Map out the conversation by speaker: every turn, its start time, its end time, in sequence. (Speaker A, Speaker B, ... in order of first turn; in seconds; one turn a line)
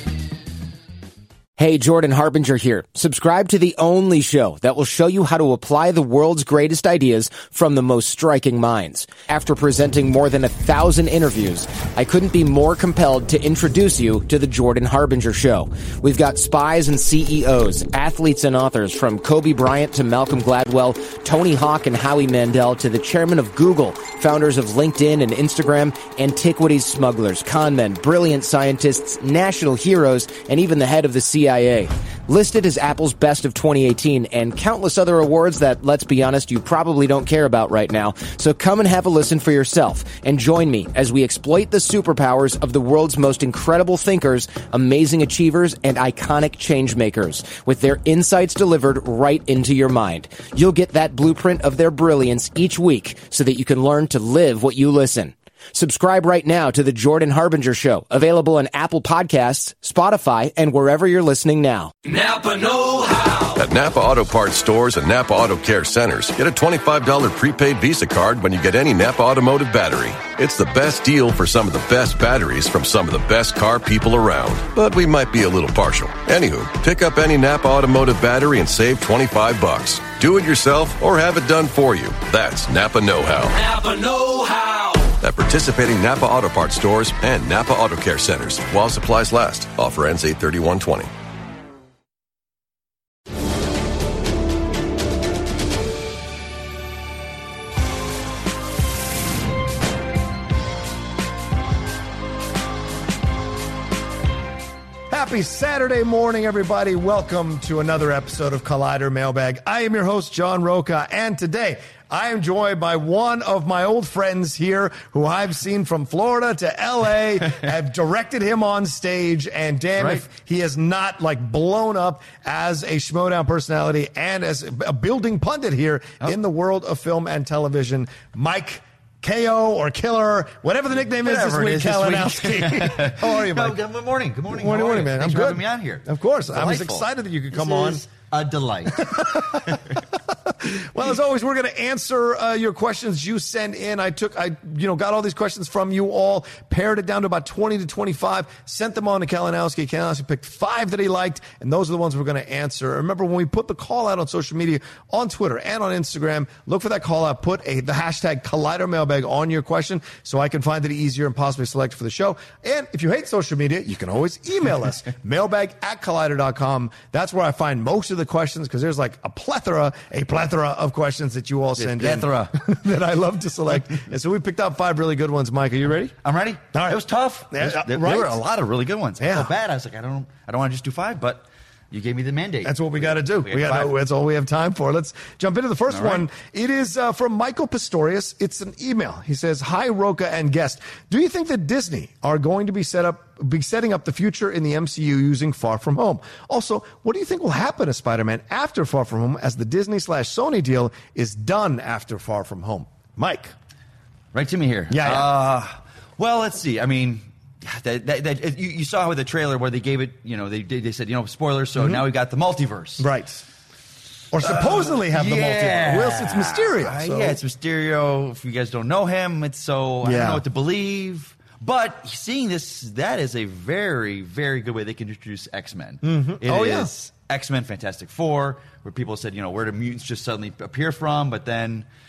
Speaker A: 1.6-61.9
Speaker B: 62.0-63.6
Speaker C: 63.6-83.5
Speaker B: 83.5-85.2
Speaker C: 85.2-91.1
Speaker D: 105.1-133.8
Speaker E: 131.0-139.8
Speaker D: 134.5-138.0
Speaker D: 138.9-176.1
Speaker E: 171.8-172.6
Speaker E: 176.2-183.9
Speaker D: 177.5-178.4
Speaker D: 179.2-179.5
Speaker D: 182.6-203.5
Speaker E: 185.9-186.3
Speaker E: 204.3-213.1
Speaker D: 204.9-205.3
Speaker D: 213.0-213.4
Speaker D: 214.3-217.4
Speaker E: 214.4-231.8
Speaker D: 220.0-220.4
Speaker D: 226.0-226.9